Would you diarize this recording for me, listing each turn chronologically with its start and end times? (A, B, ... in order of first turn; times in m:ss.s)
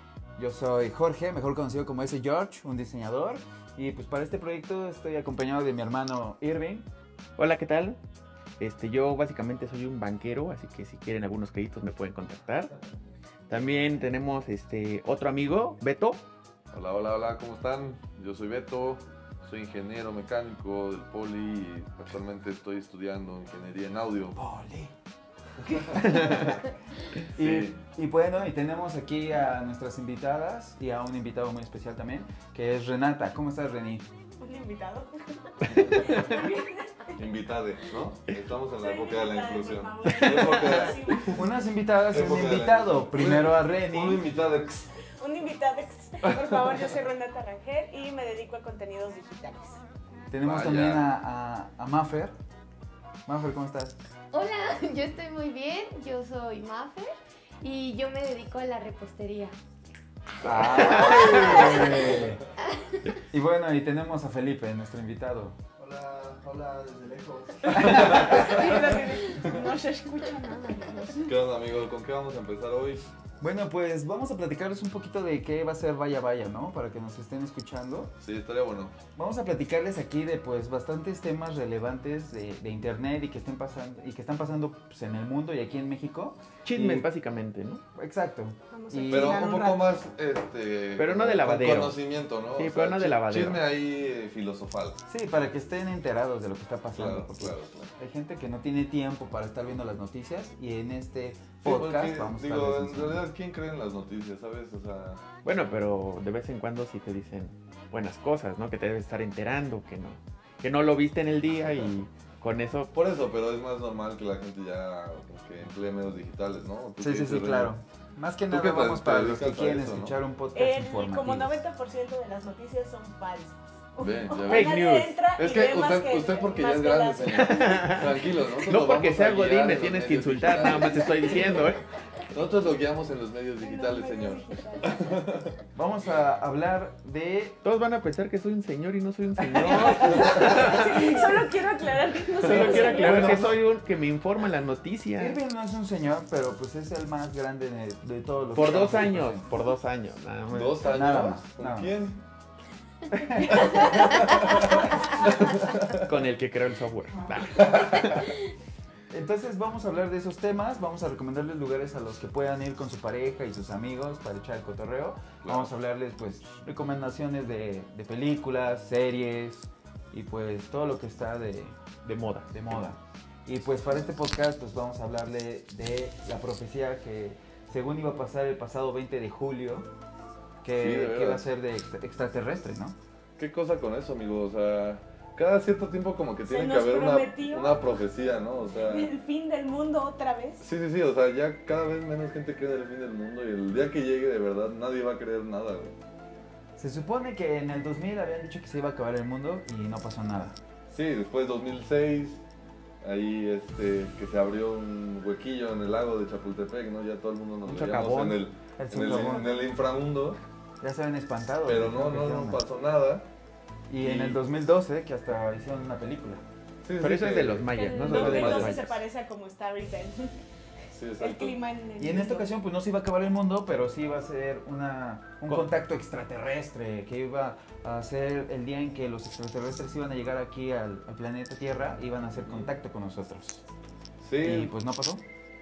0:00.4-0:06.9 A
0:07.4-0:08.0 B
0:08.6-0:12.7 B
0:13.5-0:16.2 B
0:16.7-0:24.4 C
0:24.4-0:24.9 A
0:25.6-0:26.6 A
0:25.8-0:26.6 C
0:26.1-0:26.5 B
0:27.4-0:27.8 C
0:27.4-0:34.1 A
0:34.4-0:35.1 D
0:35.6-0:37.2 D
0:37.2-0:41.3 C
0:38.8-0:41.4 D
0:40.2-0:40.7 B
0:41.3-0:44.3 A
0:42.1-0:44.9 C
0:45.2-0:49.8 D
0:46.3-0:46.6 C
0:50.3-0:52.3 A
0:50.4-0:51.1 C
0:53.3-0:54.0 A
0:54.3-0:59.5 E
1:00.4-1:02.4 A
1:00.4-1:02.0 B
1:00.6-1:03.0 E
1:03.3-1:05.6 A
1:05.8-1:09.6 C
1:07.7-1:08.4 A
1:07.8-1:11.3 D
1:11.2-1:13.1 C
1:13.4-1:18.1 A
1:18.2-1:19.0 C
1:19.2-1:27.0 A
1:26.6-1:27.8 B
1:28.0-1:29.5 A
1:28.7-1:29.9 D
1:29.1-1:35.0 C
1:31.0-1:32.0 B
1:32.6-1:33.6 B
1:35.1-1:43.2 A
1:36.9-1:37.9 C
1:41.6-1:45.2 C
1:45.4-1:52.9 B
1:51.5-1:52.0 C
1:52.9-1:57.7 C
1:57.0-2:01.6 A
1:58.5-2:00.2 C
2:00.5-2:07.8 D
2:04.0-2:04.8 C
2:04.4-2:05.2 B
2:05.4-2:11.7 C
2:07.3-2:11.8 B
2:10.7-2:11.4 D
2:12.3-2:15.6 C
2:13.6-2:15.2 D
2:15.8-2:17.6 A
2:17.6-2:21.4 B
2:19.6-2:20.8 C
2:19.6-2:23.4 D
2:22.4-2:25.4 B
2:22.5-2:23.5 C
2:25.2-2:29.5 A
2:28.6-2:30.8 B
2:30.5-2:32.2 C
2:30.8-2:31.9 A
2:33.1-2:33.7 A
2:33.7-2:36.1 C
2:35.9-2:38.3 B
2:37.5-2:38.2 C
2:39.1-2:59.9 A
2:45.4-2:45.7 C
2:52.1-2:52.5 B
3:00.6-3:03.0 A
3:00.8-3:01.4 C
3:03.4-3:09.1 C
3:06.5-3:07.9 D
3:08.8-3:10.7 D
3:10.6-3:16.0 C
3:16.8-3:20.6 A
3:20.9-3:22.4 C
3:23.0-3:30.4 C
3:27.6-3:28.4 B
3:28.8-3:29.5 A
3:30.8-3:32.6 A
3:31.6-3:33.3 C
3:33.9-3:36.4 A
3:34.0-3:34.4 C
3:36.8-3:38.8 C
3:37.0-3:39.0 B
3:37.7-3:40.4 D
3:40.9-3:41.6 C
3:41.2-3:42.5 D
3:42.0-3:53.6 A
3:54.2-3:54.7 C
3:54.4-3:55.2 A